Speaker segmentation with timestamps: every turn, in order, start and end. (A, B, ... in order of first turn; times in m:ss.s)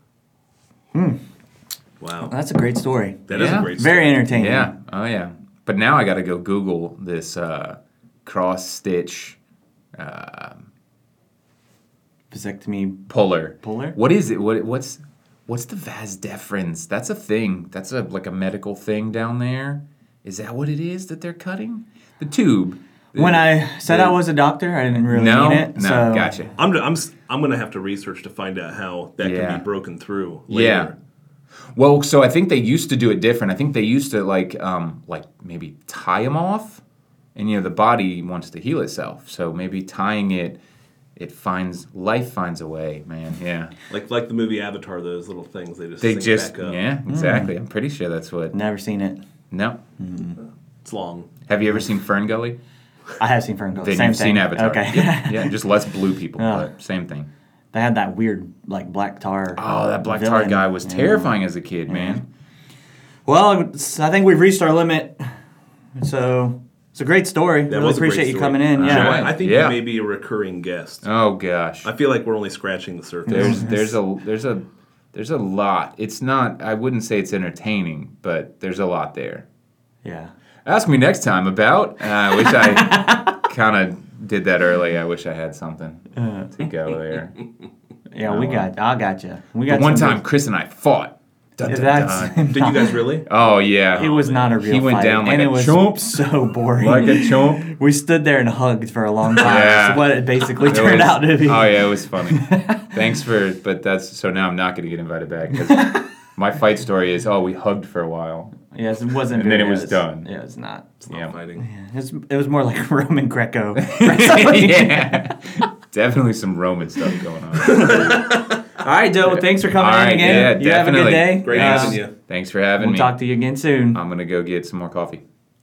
0:00.9-0:01.2 A
0:02.0-0:02.3 B
0:02.3-0:04.7 A
0:03.3-0:04.3 B
0:03.3-0:09.4 C
0:10.0-0:10.7 C
0:12.3-0:13.0 A
0:13.1-0:24.2 C
0:13.6-0:14.0 A
0:23.1-0:26.4 A
0:25.0-0:26.5 C
0:26.6-0:30.9 B
0:29.2-0:29.6 C
0:30.5-0:30.9 C
0:31.8-0:36.8 C
0:37.4-0:40.6 C
0:41.2-0:43.7 C
0:43.9-0:46.8 B
0:46.0-0:48.6 C
0:47.1-0:47.5 A
0:48.5-0:49.2 A
0:49.5-0:49.8 C
0:50.0-0:50.4 A
0:50.8-0:51.3 B
0:51.5-0:52.6 C
0:53.2-0:55.6 A
0:53.7-0:57.3 C
0:56.4-0:56.7 A
0:57.7-1:02.2 A
0:59.5-1:02.2 C
1:03.2-1:05.2 A
1:06.0-1:09.3 A
1:07.7-1:11.0 B
1:08.8-1:09.8 C
1:11.0-1:11.9 C
1:11.8-1:13.7 B
1:13.3-1:14.0 A
1:13.3-1:19.4 C
1:20.0-1:20.3 A
1:20.6-1:27.4 C
1:22.4-1:23.3 A
1:26.2-1:26.5 A
1:28.1-1:30.2 A
1:28.2-1:28.7 C
1:29.7-1:32.5 C
1:31.7-1:33.0 A
1:32.5-1:33.4 B
1:33.2-1:37.6 C
1:33.9-1:42.9 A
1:39.4-1:48.5 C
1:45.7-1:46.0 A
1:48.7-1:51.0 A
1:49.3-1:50.3 C
1:51.0-1:51.6 B
1:51.1-1:51.3 C
1:51.6-1:55.3 A
1:53.8-1:58.2 C
1:57.6-2:02.0 A
1:57.7-1:58.5 B
1:59.2-2:03.2 C
2:00.2-2:00.6 B
2:01.4-2:02.1 B
2:02.8-2:04.0 A
2:03.9-2:05.2 C